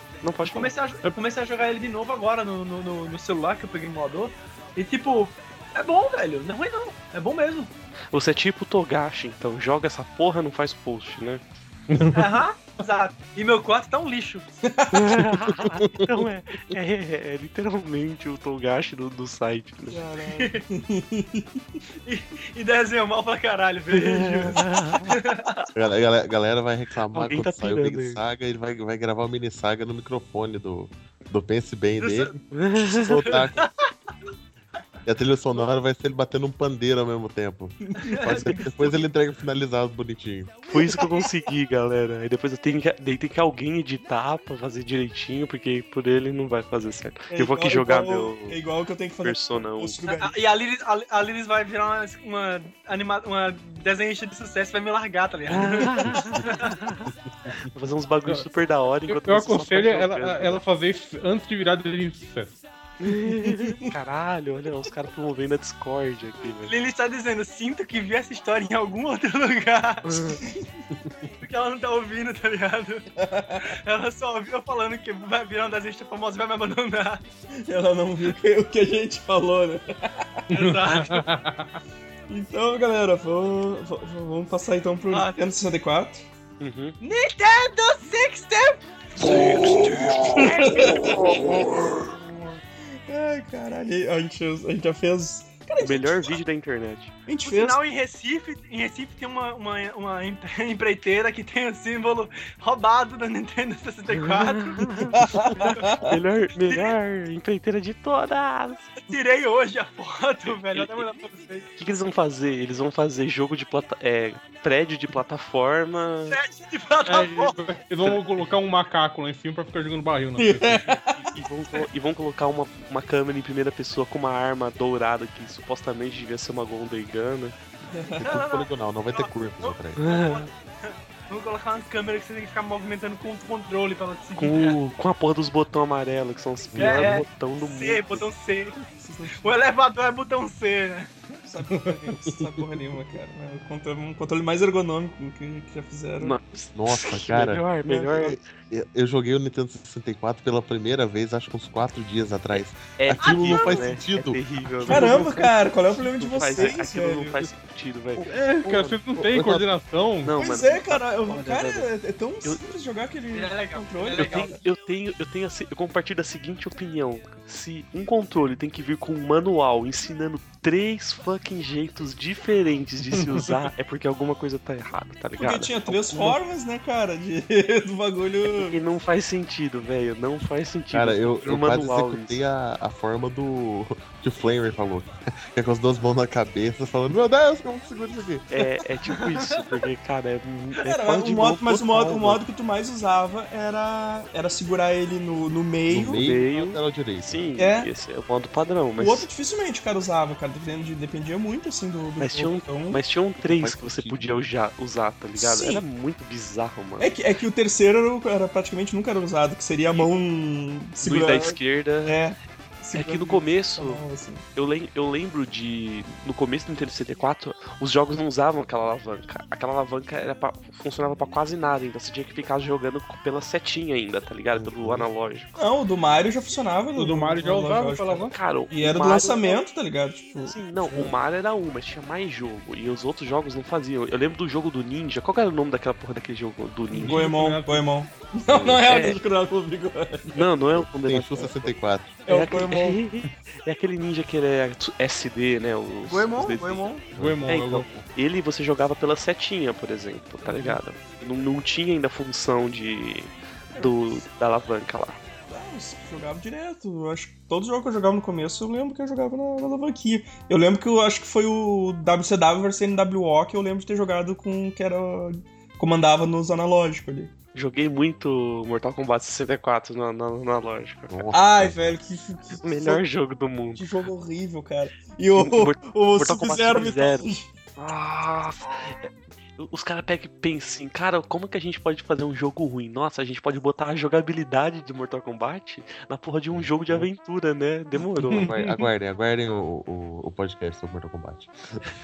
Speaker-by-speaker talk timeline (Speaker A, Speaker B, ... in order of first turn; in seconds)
Speaker A: 0.2-0.7, 8.1-11.4, 14.9-20.0, 24.1-25.1, 27.1-28.2, 32.5-33.2, 40.7-48.6, 49.2-50.0, 55.5-57.1, 57.7-60.6, 63.0-66.7, 70.0-70.4, 86.6-87.0, 95.8-97.1, 104.1-108.9, 110.5-111.1, 111.8-116.4, 121.3-127.6, 130.0-130.5, 134.4-138.3, 146.2-148.4, 152.5-155.5, 156.2-159.0, 160.2-161.9, 164.2-176.4, 178.5-182.4, 188.5-192.4, 196.1-199.3, 202.2-207.1, 211.0-212.2, 212.9-214.0, 214.6-225.6, 228.3-229.6, 230.4-237.2, 238.9-239.2, 240.3-241.7, 242.3-246.9, 247.5-255.2, 267.5-271.3, 272.6-273.8, 275.4-288.6
Speaker B: 0.5-7.7, 12.1-14.5, 20.3-20.6, 22.1-25.7, 32.1-32.3, 33.1-33.7, 38.0-39.0, 41.0-41.2, 50.1-56.8, 66.7-70.2, 71.4-73.0, 73.6-77.2, 80.5-81.3, 85.1-85.4, 87.0-88.8, 90.4-91.1, 97.5-105.8, 106.7-107.0, 109.1-111.7, 116.3-117.6, 128.2-134.8, 136.8-141.1, 153.2-153.9, 163.3-164.5, 189.2-189.6
Speaker C: 11.9-12.3, 59.1-62.6, 80.5-81.8, 117.1-120.9, 141.7-142.2, 158.2-160.3, 227.0-228.3, 237.0-237.9, 247.2-248.0, 288.4-288.9
Speaker D: 14.6-15.3, 19.9-21.5, 24.0-24.6, 47.3-50.4, 63.3-63.8, 73.2-73.7, 77.6-80.5, 82.3-86.2, 89.2-92.1, 93.1-96.4, 97.3-97.8, 105.2-106.2, 120.4-121.3, 127.9-128.3, 139.0-139.6, 141.4-146.4, 154.8-157.4, 160.4-164.6, 175.4-178.8, 190.8-196.2, 197.6-197.9, 199.0-203.0, 205.4-205.8, 207.0-214.4, 225.6-231.1, 236.9-240.4, 242.3-243.0, 246.1-247.1, 250.4-250.8, 253.7-254.2, 255.5-267.3, 271.3-273.0, 273.8-277.5
Speaker E: 15.6-16.1, 25.8-33.6, 35.0-40.6, 128.2-130.0, 136.7-137.2, 146.8-155.2, 159.2-159.7, 180.9-188.5, 195.9-197.5, 203.4-204.4, 224.5-225.1, 238.5-238.9, 240.7-242.1, 247.2-247.5, 271.1-272.0, 286.5-287.1, 288.4-291.9